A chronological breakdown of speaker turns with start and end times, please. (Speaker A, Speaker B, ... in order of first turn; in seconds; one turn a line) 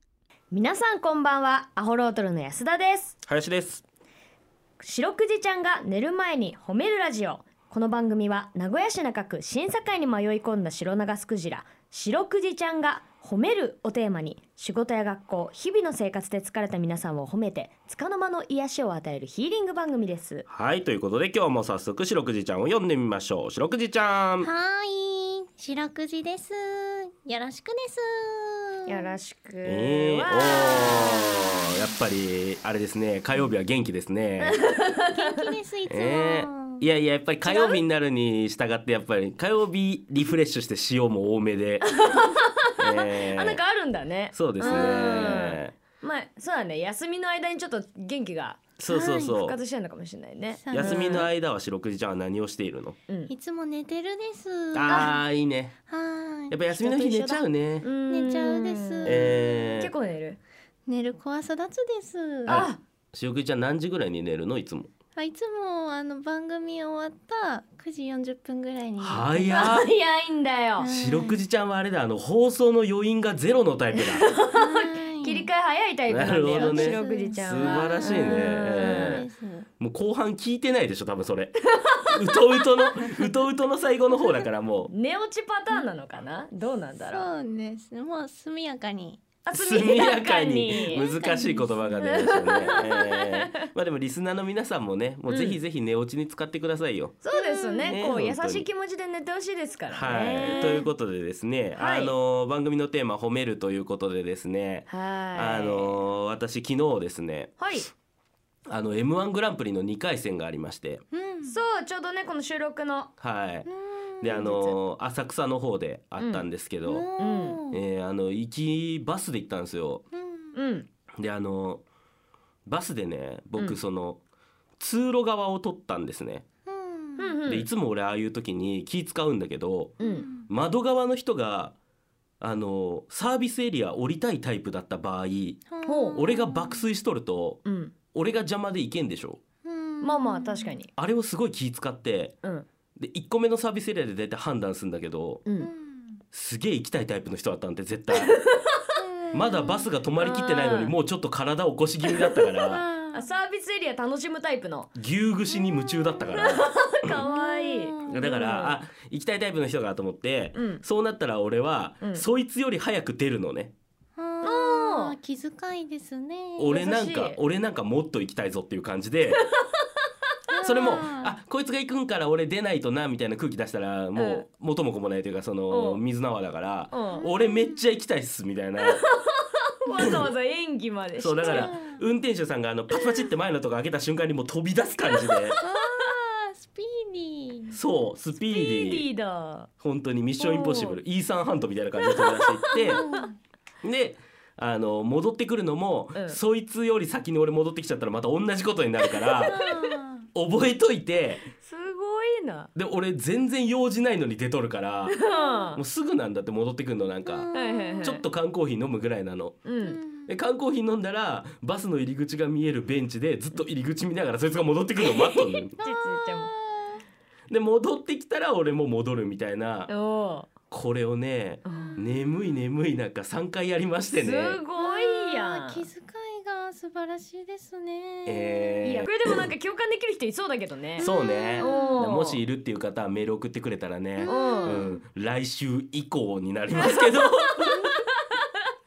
Speaker A: 0.5-3.2
Speaker B: 3.2-3.8
Speaker A: 4.8-20.4
Speaker B: 20.5-24.5
Speaker C: 24.4-29.1
Speaker A: 28.9-31.5
Speaker B: 29.6-34.6
Speaker C: 30.7-31.0
Speaker A: 34.4-35.1
Speaker C: 35.1-36.8
Speaker B: 35.9-41.9
Speaker C: 37.4-37.8
Speaker A: 41.8-48.6
Speaker B: 42.8-43.6
Speaker B: 44.3-45.7
Speaker C: 44.6-45.3
Speaker B: 48.8-49.6
Speaker C: 48.9-49.4
Speaker A: 49.3-51.3
Speaker C: 50.5-51.3
Speaker B: 50.7-53.0
Speaker C: 53.3-55.1
Speaker B: 54.7-55.8
Speaker A: 54.9-55.1
Speaker C: 55.9-56.6
Speaker B: 56.5-57.9
Speaker A: 56.7-60.4
Speaker C: 58.1-59.6
Speaker B: 59.0-59.9
Speaker C: 60.9-62.7
Speaker B: 62.5-64.9
Speaker A: 62.5-62.8
Speaker C: 65.2-69.7
Speaker B: 69.0-69.9
Speaker A: 69.5-70.9
Speaker C: 70.8-71.4
Speaker B: 70.9-74.2
Speaker A: 73.9-79.2
Speaker C: 74.5-75.5
Speaker B: 76.1-79.3
Speaker C: 76.5-79.7
Speaker B: 79.8-84.9
Speaker A: 81.8-82.1
Speaker A: 84.9-87.3
Speaker C: 86.9-89.2
Speaker A: 89.5-91.0
Speaker B: 89.5-97.2
Speaker C: 90.9-92.2
Speaker A: 92.0-93.4
Speaker A: 95.3-95.6
Speaker A: 97.2-100.8
Speaker C: 97.3-98.0
Speaker B: 97.9-98.7
Speaker B: 99.9-107.6
Speaker C: 100.4-100.9
Speaker A: 101.8-102.1
Speaker A: 104.9-106.0
Speaker A: 107.6-107.9
Speaker B: 108.7-111.0
Speaker C: 111.1-111.6
Speaker A: 111.5-113.1
Speaker B: 113.2-113.7
Speaker C: 113.7-114.3
Speaker B: 114.2-117.1
Speaker A: 114.2-114.8
Speaker A: 116.2-116.5
Speaker C: 116.8-117.8
Speaker A: 117.2-117.6
Speaker B: 117.7-120.0
Speaker C: 120.1-120.5
Speaker A: 120.5-120.9
Speaker B: 121.2-121.8
Speaker B: 122.7-124.2
Speaker B: 124.8-126.4
Speaker C: 126.7-127.4
Speaker A: 127.2-127.7
Speaker B: 127.5-131.7
Speaker A: 130.0-130.3
Speaker C: 130.0-130.5
Speaker B: 132.4-135.6
Speaker C: 135.7-136.9
Speaker A: 135.8-136.2
Speaker B: 136.1-137.6
Speaker A: 137.6-137.9
Speaker B: 138.1-139.4
Speaker C: 139.6-140.8
Speaker A: 140.0-140.9
Speaker B: 140.9-142.3
Speaker B: 143.0-145.4
Speaker C: 145.6-146.2
Speaker B: 146.3-148.3
Speaker A: 148.1-148.8
Speaker C: 148.9-149.9
Speaker B: 149.3-152.8
Speaker A: 150.2-150.9
Speaker C: 152.6-153.3
Speaker A: 153.1-154.9
Speaker B: 154.9-157.2
Speaker C: 155.5-156.3
Speaker A: 156.2-158.8
Speaker C: 157.2-158.4
Speaker B: 158.1-163.7
Speaker A: 160.5-160.8
Speaker A: 162.0-162.2
Speaker C: 164.2-166.8
Speaker A: 164.4-165.2
Speaker B: 166.6-169.4
Speaker A: 166.7-167.4
Speaker C: 170.5-171.3
Speaker B: 170.6-179.0
Speaker A: 174.1-174.4
Speaker A: 175.7-176.0
Speaker A: 176.9-177.2
Speaker C: 177.1-177.8
Speaker A: 178.8-181.7
Speaker C: 179.9-180.2
Speaker B: 180.0-180.2
Speaker B: 181.2-185.6
Speaker C: 181.4-182.0
Speaker A: 185.1-185.7
Speaker C: 185.6-187.8
Speaker B: 187.7-189.1
Speaker A: 188.4-189.7
Speaker B: 189.8-193.0
Speaker A: 190.4-191.0
Speaker A: 192.0-193.0
Speaker C: 192.7-193.4
Speaker B: 193.8-199.7
Speaker C: 199.4-200.3
Speaker B: 200.3-201.4
Speaker A: 201.6-202.7
Speaker B: 202.7-205.2
Speaker A: 205.1-205.8
Speaker C: 205.3-205.7
Speaker B: 205.8-207.5
Speaker C: 207.2-208.1
Speaker A: 207.5-208.2
Speaker B: 208.0-209.6
Speaker A: 209.6-210.0
Speaker C: 209.8-210.3
Speaker B: 210.2-215.8
Speaker A: 215.0-216.5
Speaker C: 215.8-217.0
Speaker B: 217.5-219.9
Speaker A: 219.9-220.5
Speaker B: 220.7-224.6
Speaker A: 221.6-222.1
Speaker C: 221.7-222.0
Speaker A: 224.1-225.9
Speaker C: 224.8-229.0
Speaker B: 228.2-229.4
Speaker A: 228.8-232.4
Speaker C: 231.0-232.0
Speaker B: 231.0-237.9
Speaker C: 234.2-235.0
Speaker A: 234.2-234.9
Speaker A: 236.8-238.4